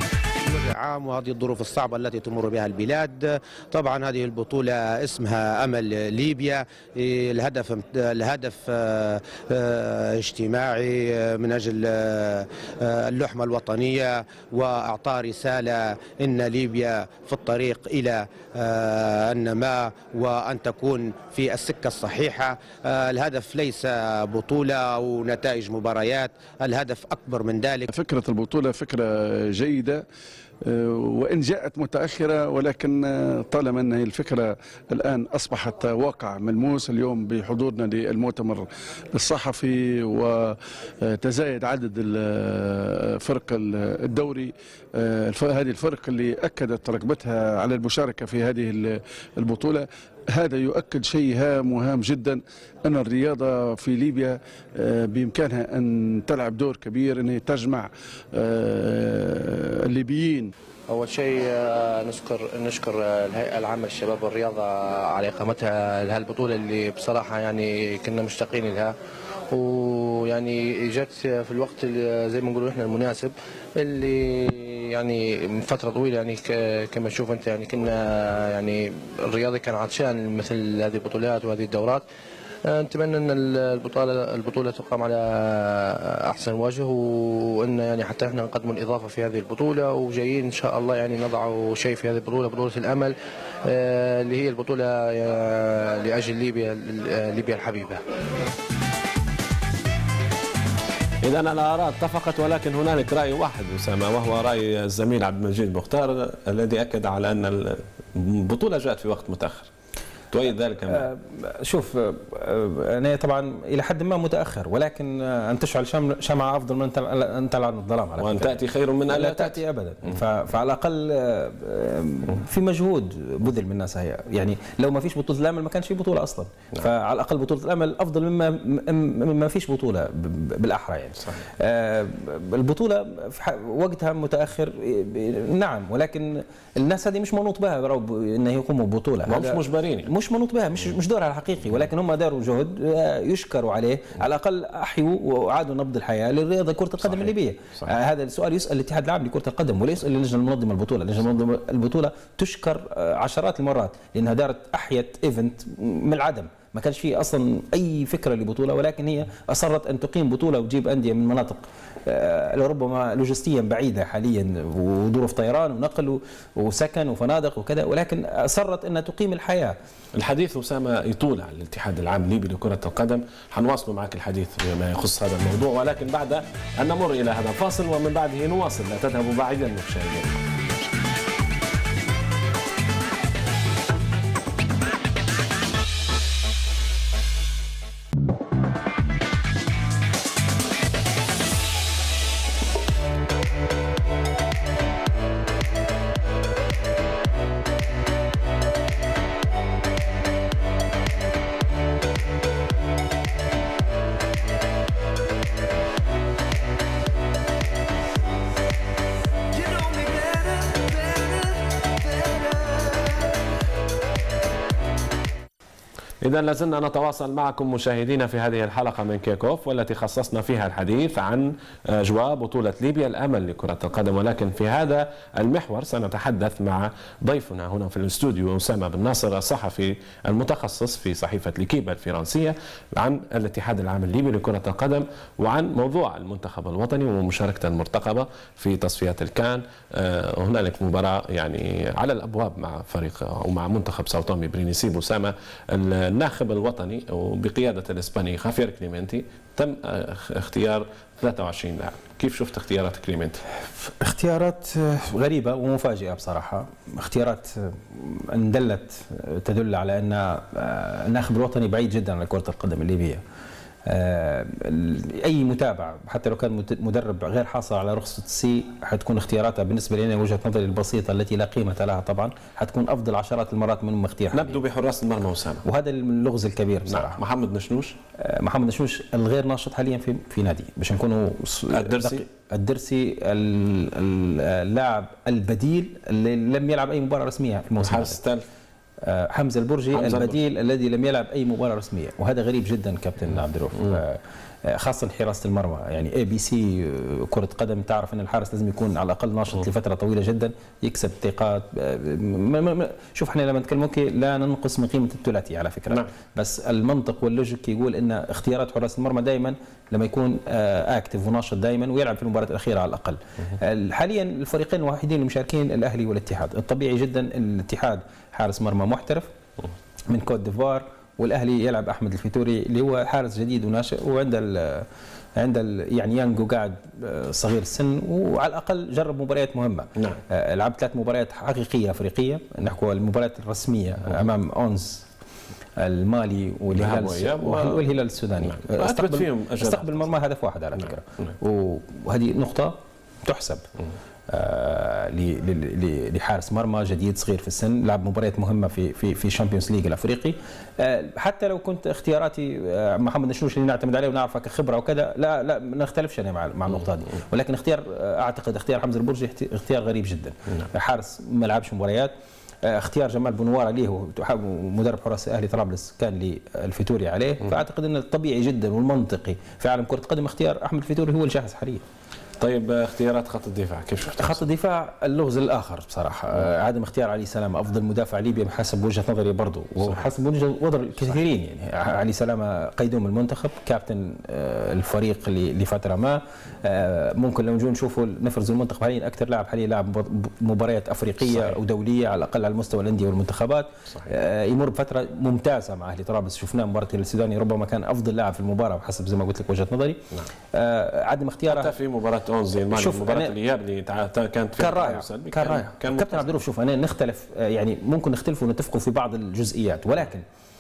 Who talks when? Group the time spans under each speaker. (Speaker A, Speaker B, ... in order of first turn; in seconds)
Speaker A: 0.4-27.9
Speaker B: 27.9-30.0, 30.6-60.5
Speaker C: 60.9-68.9, 69.5-82.0, 82.7-93.1, 93.7-98.0
Speaker D: 101.2-109.7, 110.3-111.1, 118.2-119.6, 139.3-140.1, 170.2-180.4, 216.2-253.4, 274.3-275.6, 276.9-278.0, 281.7-282.2, 287.8-288.4, 289.9-290.4, 336.7-337.9, 338.4-340.1, 372.4-374.4, 379.8-380.1, 391.3-391.6, 401.5-406.3
Speaker E: 110.9-169.8, 253.8-263.2, 263.9-274.6, 275.6-277.2, 278.2-288.2, 289.0-319.3, 320.1-335.1, 335.8-343.6, 344.3-362.1, 362.6-371.8, 374.2-401.8, 402.7-403.4, 404.6-410.2